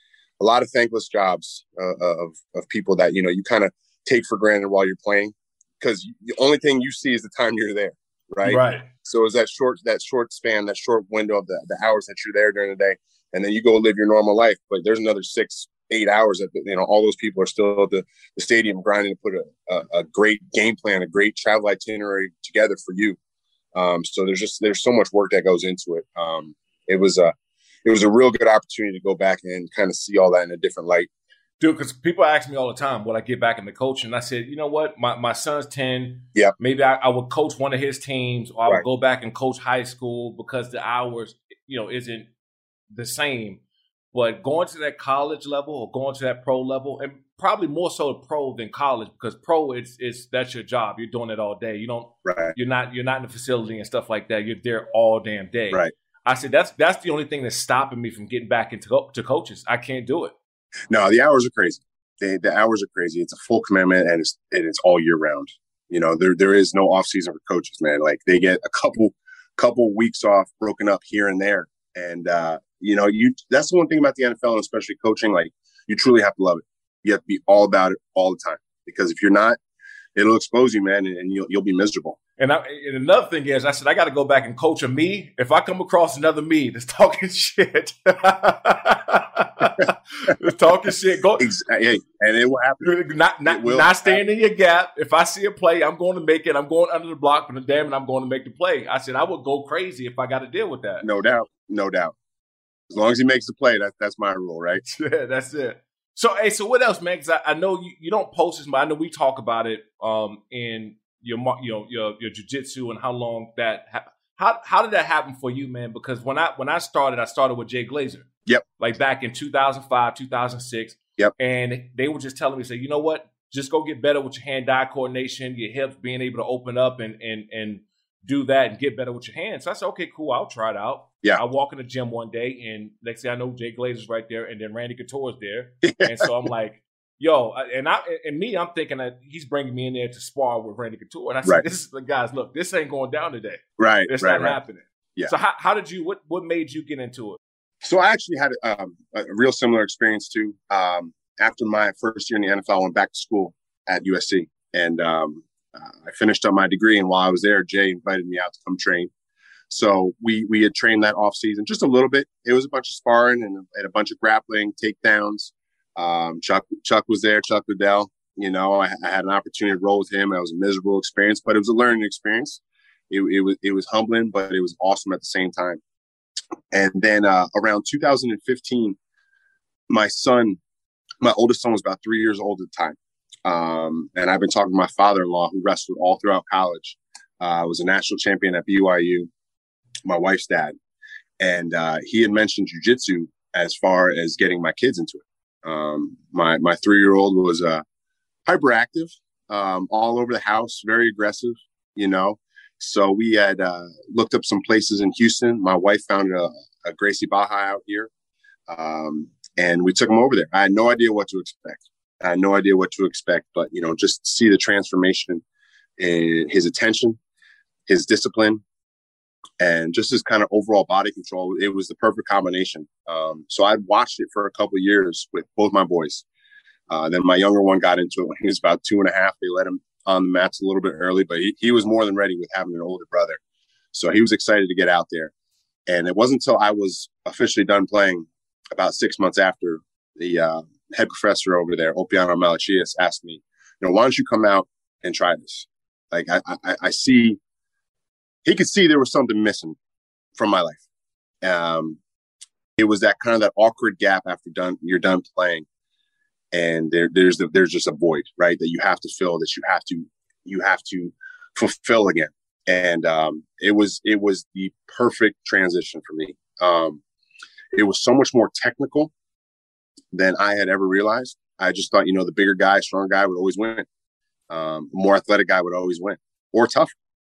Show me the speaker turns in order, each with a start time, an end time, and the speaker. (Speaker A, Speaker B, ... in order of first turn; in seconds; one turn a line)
Speaker A: 0.4-23.2
Speaker B: 8.4-8.9
Speaker A: 23.8-27.3
Speaker A: 27.9-31.1
Speaker B: 31.6-42.3
Speaker B: 42.9-43.6
Speaker B: 44.1-60.4
Speaker A: 52.2-52.6
Speaker A: 60.9-79.6
Speaker A: 80.2-82.2
Speaker B: 82.4-91.5
Speaker A: 91.4-92.9
Speaker B: 92.8-101.1
Speaker A: 93.5-94.2
Speaker A: 101.0-102.2
Speaker A: 102.9-104.8
Speaker B: 104.9-118.3
Speaker B: 118.8-147.4
Speaker A: 135.8-136.2
Speaker A: 143.8-144.6
Speaker A: 147.8-159.1
Speaker A: 159.7-175.8
Speaker A: 176.7-179.0
Speaker A: 179.9-180.6
Speaker A: 181.2-189.3
Speaker A: 190.1-190.8
Speaker A: 191.4-197.8
Speaker A: 198.5-208.1
Speaker A: 208.7-215.4
Speaker A: 216.0-217.2
Speaker A: 217.9-218.6
Speaker A: 219.6-226.2
Speaker A: 226.9-233.4
Speaker A: 233.9-235.3
Speaker A: 235.9-247.4
Speaker A: 248.4-249.8
Speaker A: 250.4-250.8
Speaker A: 251.4-252.0
Speaker A: 252.8-255.7
Speaker A: 256.5-267.0
Speaker A: 267.7-269.1
Speaker A: 270.1-273.9
Speaker A: 274.5-276.9